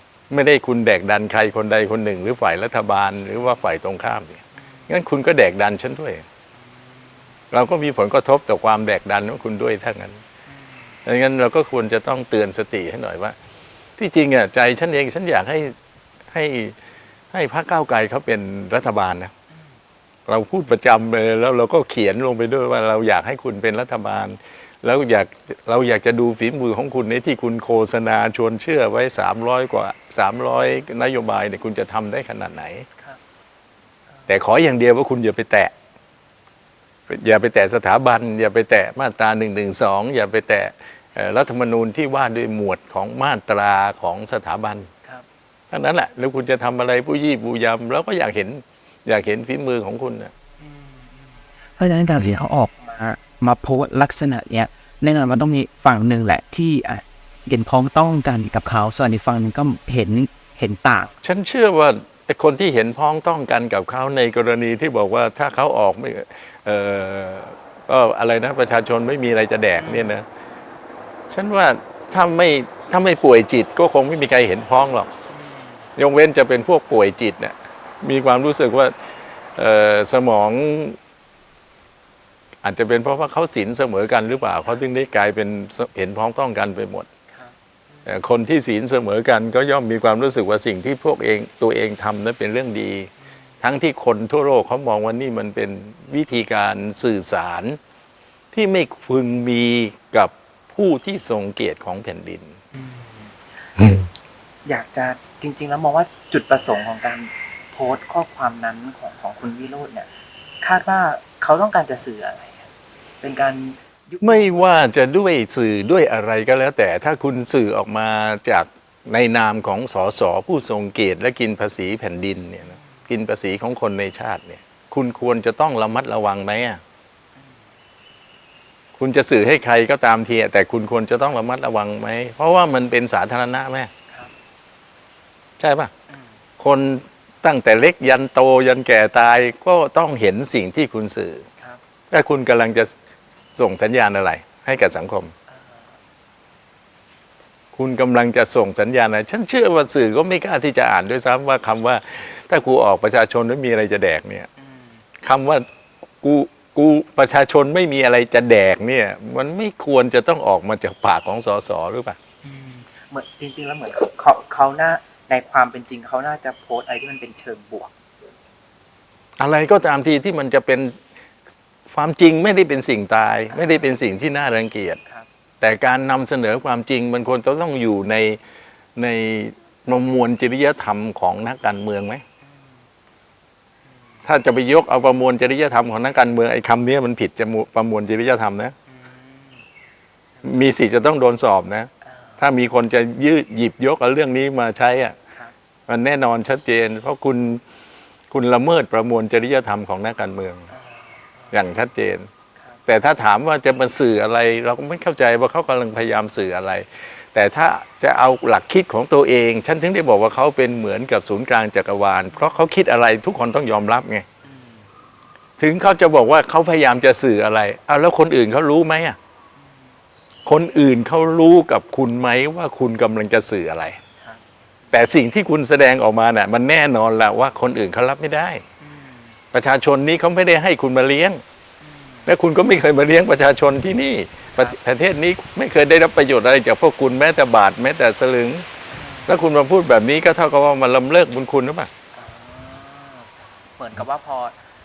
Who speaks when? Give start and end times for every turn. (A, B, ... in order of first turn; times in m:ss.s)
0:00.3-0:06.2 A
0:04.6-0:04.9 B
0:06.6-0:07.2 B
0:07.5-0:10.2 A
0:10.5-0:11.0 B
0:11.0-0:13.4 A
0:14.0-0:15.8 A
0:16.3-0:16.8 A
0:17.3-0:19.3 A
0:20.3-0:32.9 A
0:34.1-0:34.4 B
0:34.3-0:35.7 A
0:37.1-0:44.9 A
0:45.7-0:50.3 A
0:50.6-0:51.4 B
0:51.8-1:01.1 C
1:01.2-1:10.3 A
1:09.8-1:10.2 B
1:11.3-1:15.1 A
1:15.3-1:15.9 B
1:16.0-1:18.9 A
1:19.5-1:21.0 A
1:22.6-1:27.1 A
1:27.3-1:28.2 B
1:28.0-1:37.8 A
1:38.5-1:42.6 A
1:42.7-1:43.4 B
1:43.8-1:44.1 A
1:44.6-1:50.1 B
1:50.6-1:52.7 B
1:53.2-1:54.7 B
1:54.2-2:06.8 A
2:02.6-2:03.0 B
2:07.4-2:07.6 B
2:09.0-2:13.9 A
2:15.6-2:15.9 A
2:16.1-2:16.4 B
2:16.6-2:21.5 A
2:22.1-2:22.9 A
2:23.5-2:25.3 A
2:25.5-2:26.0 B
2:27.7-2:34.5 A
2:34.6-2:35.0 B
2:35.2-2:35.7 A
2:36.2-2:42.2 A
2:42.4-2:47.9 B
2:49.4-2:51.0 A
2:51.9-2:55.0 A
2:53.5-2:53.9 B
2:55.6-2:58.4 A
2:59.0-3:02.2 A
3:02.4-3:02.8 B
3:03.9-3:04.2 B
3:04.2-3:08.7 A
3:08.9-3:09.6 B
3:10.4-3:10.6 B
3:10.4-3:15.2 A
3:12.0-3:12.4 B
3:15.9-3:17.6 A
3:18.3-3:20.7 A
3:20.7-3:21.7 B
3:21.5-3:22.3 A
3:22.9-3:34.2 A
3:32.3-3:32.6 B
3:34.4-3:34.9 B
3:35.6-3:39.2 A
3:39.6-3:40.0 B
3:40.4-3:44.0 A
3:44.2-3:45.0 B
3:44.9-3:48.6 A
3:48.8-3:49.4 B
3:49.5-3:51.4 A
3:51.8-3:52.3 B
3:52.3-3:58.6 A
3:58.9-3:59.4 B
3:59.3-4:01.9 A
4:02.1-4:04.6 B